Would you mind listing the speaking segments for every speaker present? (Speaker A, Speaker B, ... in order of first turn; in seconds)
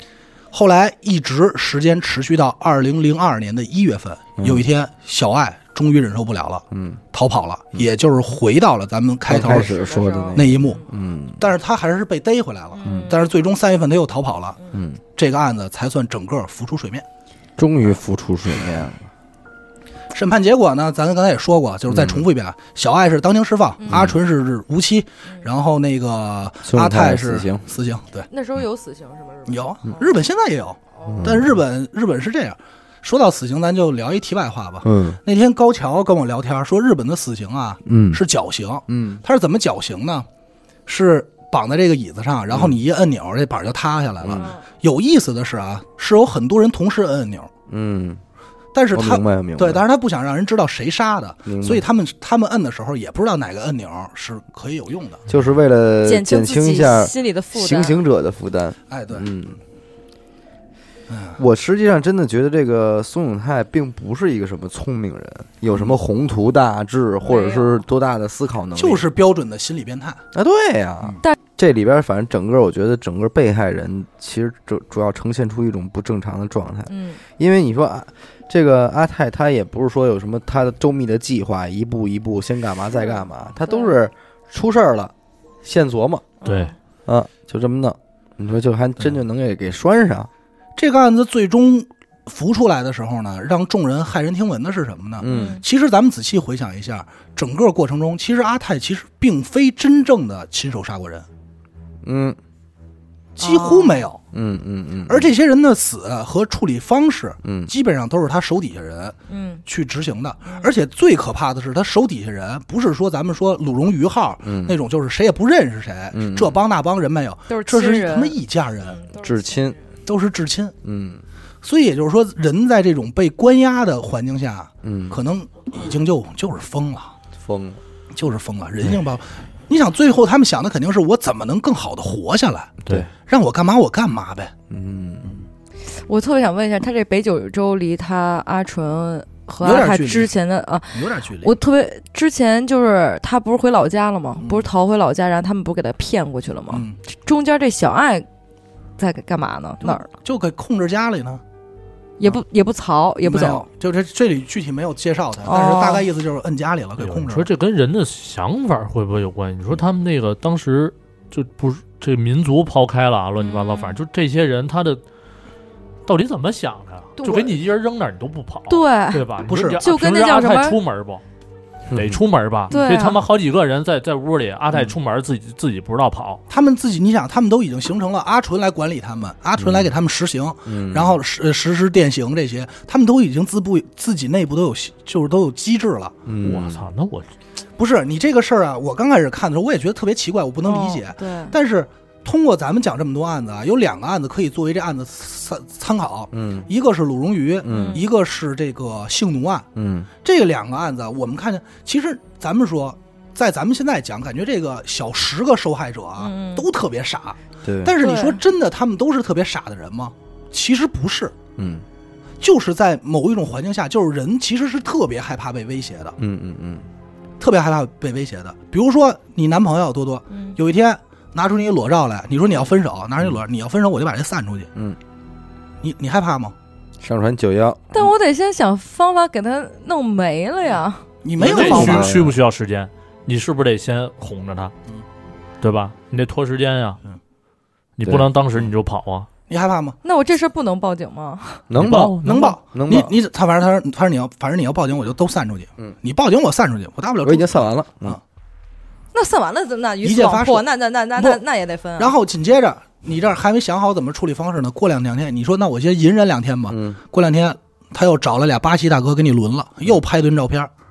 Speaker A: 0.5-10.8, 11.4-14.6, 15.2-17.1, 18.5-18.9, 20.1-28.3, 29.5-40.3, 40.9-47.5, 48.7-55.2, 58.9-59.3, 61.1-61.4, 68.7-70.2, 90.8-101.3, 103.3-104.2, 105.1-119.0, 120.0-120.7, 121.6-127.1, 128.1-134.5, 139.6-140.3, 140.9-141.6, 144.4-144.7, 146.7-147.0, 149.8-151.4, 153.2-157.5, 169.4-169.8, 176.5-186.2, 187.8-199.7, 200.2-211.3, 212.4-216.1, 217.4-224.7, 225.8-226.6, 231.2-232.2, 239.5-240.0, 242.2-248.2, 250.0-251.4, 252.0-260.7
Speaker B: 6.7-7.0, 9.3-11.5, 12.8-13.1, 14.7-15.0, 17.6-19.1, 21.9-22.2, 23.9-24.1, 26.6-27.6, 31.1-31.5, 34.8-35.2, 37.8-38.2, 38.9-39.2, 44.2-44.5, 47.7-48.2, 48.9-49.8, 51.5-51.8, 55.3-59.6, 61.4-69.0, 70.3-85.1, 85.6-86.2, 87.0-90.3, 95.2-95.6, 102.0-102.4, 104.3-105.3, 107.4-107.7, 114.4-114.8, 116.1-116.6, 119.2-119.8, 120.8-121.2, 124.8-125.2, 127.3-127.8, 132.8-133.1, 134.7-135.4, 171.9-172.2, 179.6-179.9, 180.7-181.2, 186.2-186.8, 196.3-196.7, 197.6-198.0, 199.7-200.1, 207.6-207.9, 211.6-211.8, 216.2-216.8, 227.0-227.9, 231.4-232.3, 238.0-238.3, 241.7-243.1, 247.2-248.2, 256.7-257.0
Speaker C: 9.4-10.8, 12.8-13.2, 23.8-24.1, 28.3-30.2, 30.9-31.3, 56.0-58.0, 67.2-67.8, 76.9-77.2, 82.9-84.0, 86.4-86.8, 95.2-95.6, 103.4-104.1, 109.3-109.6, 117.5-119.9, 135.9-148.3, 149.0-150.1, 152.2-153.7, 155.4-156.1, 163.4-164.0, 167.2-167.6, 168.7-170.8, 172.7-173.2, 190.6-191.5, 197.7-198.0, 206.2-206.6, 208.0-208.4, 220.3-220.6, 227.9-231.1, 240.0-241.7, 249.1-252.1
Speaker D: 86.5-86.7, 157.0-165.0, 166.0-171.2, 171.9-176.4, 186.4-187.3, 231.4-234.7, 235.6-237.0, 238.0-239.3, 241.7-242.6